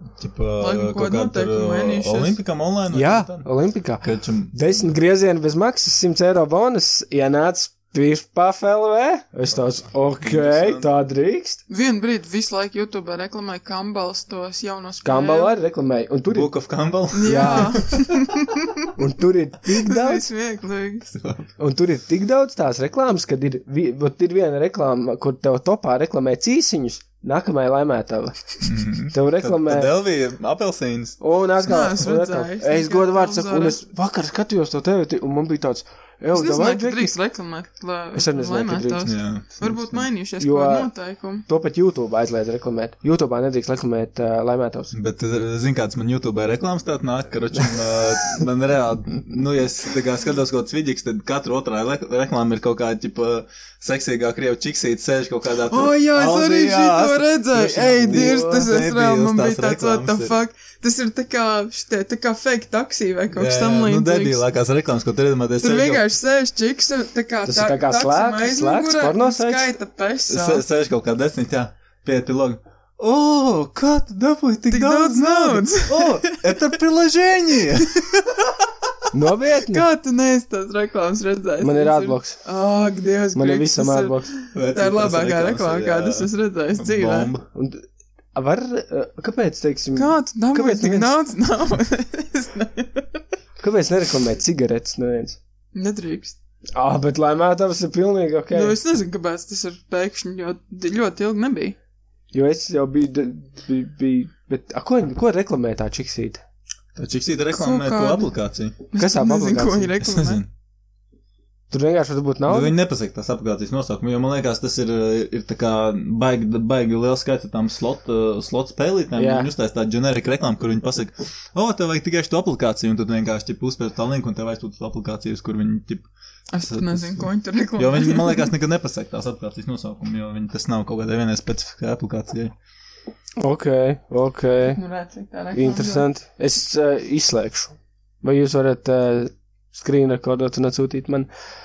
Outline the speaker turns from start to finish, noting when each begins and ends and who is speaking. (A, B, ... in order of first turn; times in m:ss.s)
0:00.2-0:03.5 A
0:00.6-0:02.4 B
0:02.9-0:11.6 C
0:04.0-0:04.9 A
0:10.0-0:10.9 A
0:11.7-0:15.5 B
0:15.0-0:16.5 C
0:16.3-0:17.8 A
0:17.1-0:18.9 B
0:17.2-0:17.8 C
0:19.0-0:20.3 C
0:19.8-0:21.0 B
0:21.0-0:21.5 A
0:21.6-0:28.4 C
0:28.6-0:31.2 A
0:29.1-0:29.9 C
0:31.2-0:37.1 C
0:31.6-0:33.8 B
0:36.3-0:41.4 B
0:38.1-0:39.1 C
0:39.0-0:40.0 A
0:40.4-0:40.9 C
0:41.5-0:44.9 C
0:44.9-1:00.4 A
0:55.7-1:04.4 B
0:58.1-0:58.6 C
1:03.3-1:06.0 A
1:05.6-1:10.6 B
1:07.4-1:09.7 C
1:10.3-1:18.2 A
1:14.7-1:16.3 B
1:19.1-1:19.8 C
1:19.6-1:27.3 B
1:21.6-1:22.4 C
1:23.3-1:24.3 C
1:24.5-1:27.4 A
1:27.5-1:31.1 C
1:30.0-1:33.2 B
1:33.6-1:35.4 C
1:35.7-1:36.3 B
1:36.7-1:38.8 C
1:38.5-1:41.8 B
1:42.3-1:46.4 C
1:46.9-1:48.8 A
1:47.5-1:48.3 B
1:48.9-1:50.4 B
1:49.0-1:49.9 C
1:50.0-1:50.5 A
1:51.7-1:52.7 C
1:52.5-2:06.0 A
1:59.2-1:59.5 C
2:06.5-2:08.5 B
2:06.6-2:12.5 A
2:13.4-2:14.8 C
2:14.7-2:16.0 B
2:15.5-2:21.3 C